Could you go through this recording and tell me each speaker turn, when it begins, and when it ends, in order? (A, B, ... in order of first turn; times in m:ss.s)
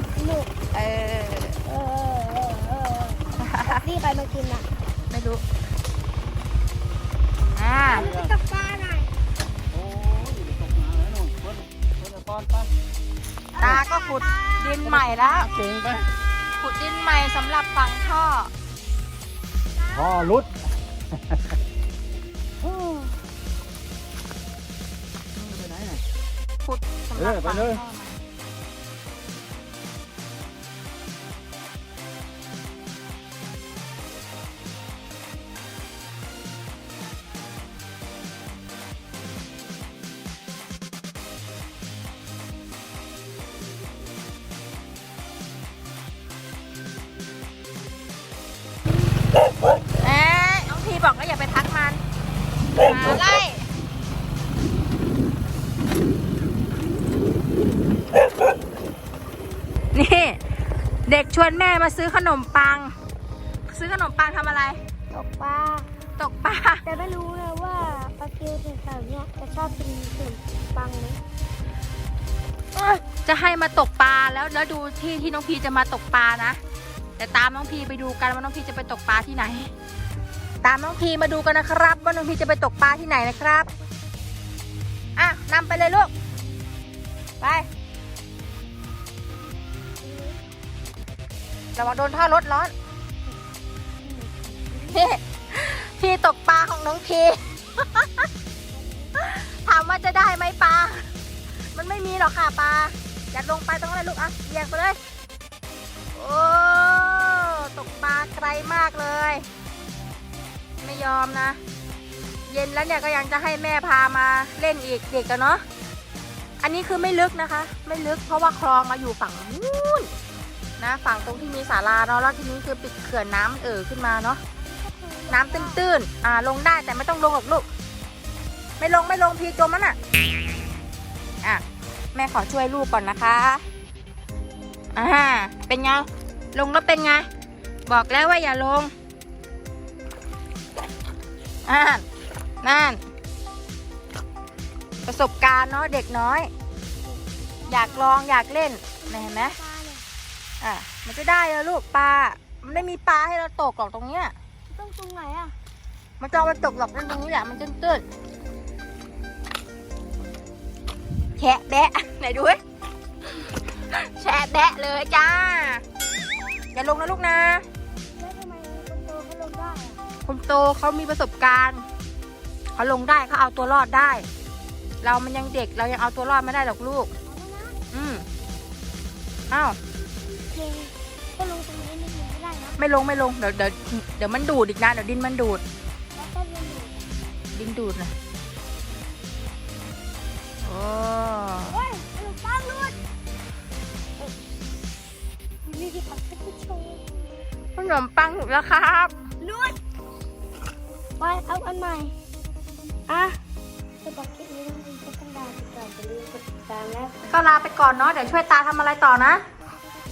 0:00.2-0:00.5 A
0:00.7-0:01.6 B
0:01.6-0:04.7 A
0:03.4-0:03.8 B
0:05.1-0:05.4 B
0:07.6-0:08.1 B
0:07.9-0:09.1 A
0:08.0-0:08.3 C
0:09.7-0:12.7 C
0:13.5-0:15.5 A
0:13.6-0:15.5 B
0:15.5-0:16.1 C
0:16.6-0:18.5 B
0:19.8-0:20.5 A
0:19.9-0:20.5 C
0:22.7-0:23.0 C
0:25.4-0:25.7 B
0:25.5-0:26.0 C
0:26.6-0:28.2 B
0:27.2-0:27.8 C
0:50.0-0:52.0 B
0:52.8-0:53.6 B
0:59.9-1:00.4 B
1:01.0-1:02.9 B
1:03.7-1:04.8 B
1:05.1-1:05.9 A
1:06.2-1:06.8 B
1:06.8-1:11.2 A
1:12.8-1:16.6 B
1:17.2-1:19.7 B
1:20.6-1:23.7 B
1:25.2-1:26.1 B
1:27.4-1:27.7 B
1:30.0-1:30.4 A
1:31.8-1:32.7 B
1:34.0-1:35.0 A
1:34.8-1:38.3 B
1:38.7-1:39.1 A
1:39.1-1:41.1 B
1:41.7-1:45.0 B
1:46.1-1:49.4 B
1:50.8-1:51.6 B
1:52.5-1:55.6 B
1:56.6-2:00.1 B
2:00.8-2:04.4 B
2:04.6-2:05.8 A
2:05.3-2:07.6 B
2:08.8-2:10.0 B
2:12.1-2:13.6 B
2:14.9-2:17.3 B
2:17.9-2:18.9 B
2:21.6-2:22.0 B
2:22.6-2:23.0 B
2:25.0-2:26.5 B
2:27.1-2:28.2 A
2:27.7-2:29.6 B
2:29.0-2:30.0 A
2:30.6-2:34.3 B
2:34.7-2:35.5 A
2:36.2-2:38.0 B
2:41.4-2:42.6 B
2:43.8-2:45.8 B
2:46.7-2:47.6 B
2:48.2-2:50.0 A
2:50.2-2:51.8 B
2:52.7-2:54.2 B
2:55.0-2:57.1 B
2:57.3-2:57.8 A
2:57.9-2:58.2 B
2:59.5-2:59.8 B
3:00.5-3:02.8 A
3:02.8-3:05.6 B
3:06.1-3:07.1 A
3:07.5-3:08.1 B
3:10.6-3:11.8 B
3:11.7-3:13.0 A
3:15.6-3:17.0 A
3:17.8-3:19.1 B
3:19.4-3:19.8 A
3:21.2-3:22.1 A
3:23.1-3:23.4 A
3:24.0-3:27.3 A
3:27.3-3:29.4 B